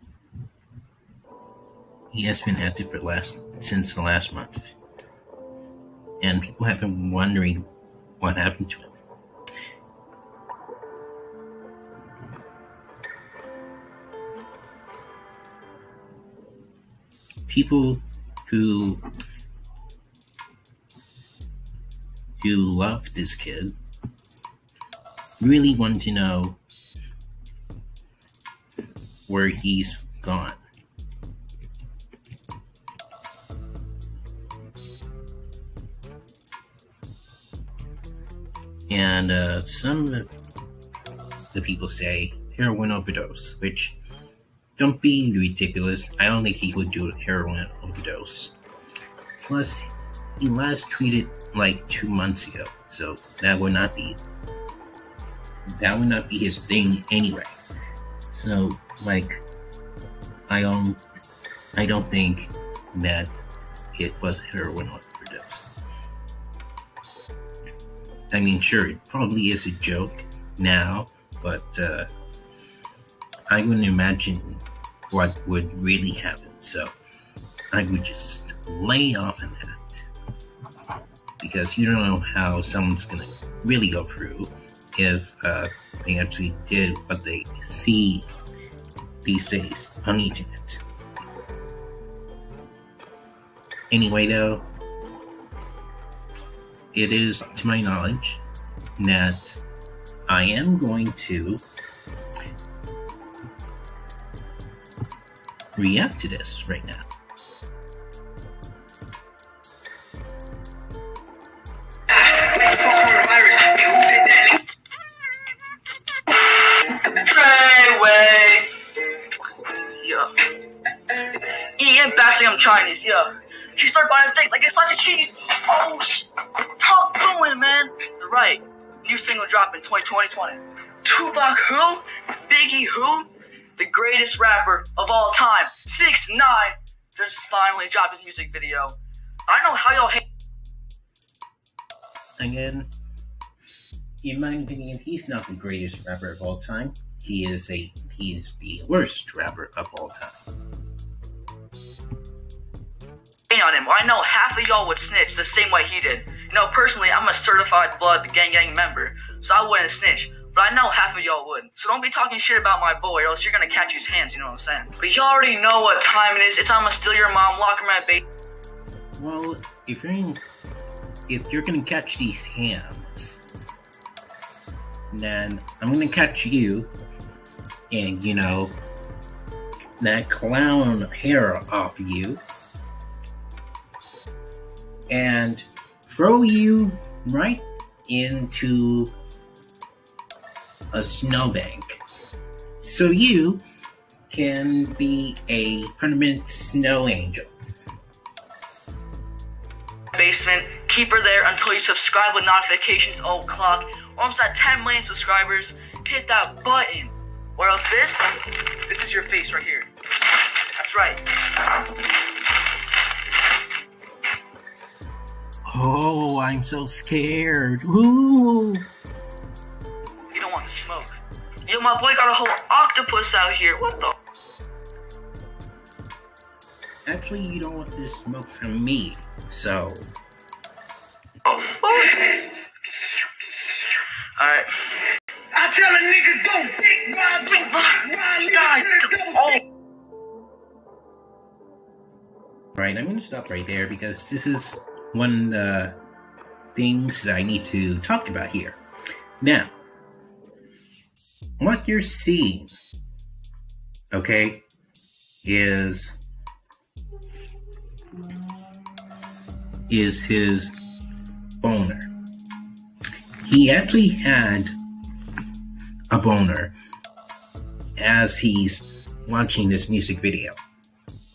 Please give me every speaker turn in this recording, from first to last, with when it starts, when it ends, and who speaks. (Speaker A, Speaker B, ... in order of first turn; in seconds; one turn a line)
Speaker A: 2.1-4.7
Speaker A: 6.2-7.6
Speaker A: 8.2-9.0
Speaker A: 17.5-19.0
Speaker A: 22.4-23.7
Speaker A: 25.4-26.6
Speaker A: 29.3-30.6
Speaker A: 38.9-40.3
Speaker A: 41.5-44.0
Speaker A: 44.8-48.6
Speaker A: 49.4-54.2
Speaker A: 55.8-57.6
Speaker A: 58.3-59.4
Speaker A: 60.5-61.0
Speaker A: 61.8-63.3
Speaker A: 63.9-65.7
Speaker A: 68.3-72.1
Speaker A: 73.5-76.9
Speaker A: 77.7-80.1
Speaker A: 81.4-88.3
Speaker A: 89.2-90.8
Speaker A: 93.9-94.7
Speaker A: 96.9-98.4
Speaker A: 99.0-99.6
Speaker A: 100.3-101.6
Speaker A: 105.8-107.0
Speaker B: 112.1-114.6
Speaker C: 116.5-118.7
Speaker C: 119.7-120.5
Speaker C: 121.3-139.0
Speaker C: 139.5-140.2
Speaker A: 142.4-142.9
Speaker A: 144.2-150.5
Speaker C: 153.5-168.2
Speaker A: 169.2-170.4
Speaker A: 171.3-173.4
Speaker A: 175.1-176.9
Speaker A: 177.9-178.8
Speaker A: 180.0-182.4
Speaker A: 185.1-189.1
Speaker A: 190.9-192.0
Speaker A: 192.8-193.6
Speaker A: 194.3-197.5
Speaker C: 200.1-208.3
Speaker C: 208.9-209.9
Speaker C: 210.8-212.2
Speaker A: 215.7-218.9
Speaker C: 220.3-224.2
Speaker A: 227.1-230.1
Speaker C: 231.4-232.4
Speaker B: 232.1-232.4
Speaker C: 234.4-235.1
Speaker B: 235.5-239.6
Speaker C: 237.6-239.6
Speaker A: 242.8-245.9
Speaker A: 246.7-248.8
Speaker A: 249.4-249.7
Speaker A: 251.6-252.7
Speaker A: 254.1-254.6
Speaker A: 255.4-256.2
Speaker A: 259.9-260.8
Speaker A: 261.6-262.1
Speaker A: 263.4-264.8
Speaker A: 266.1-266.8
Speaker A: 268.0-270.6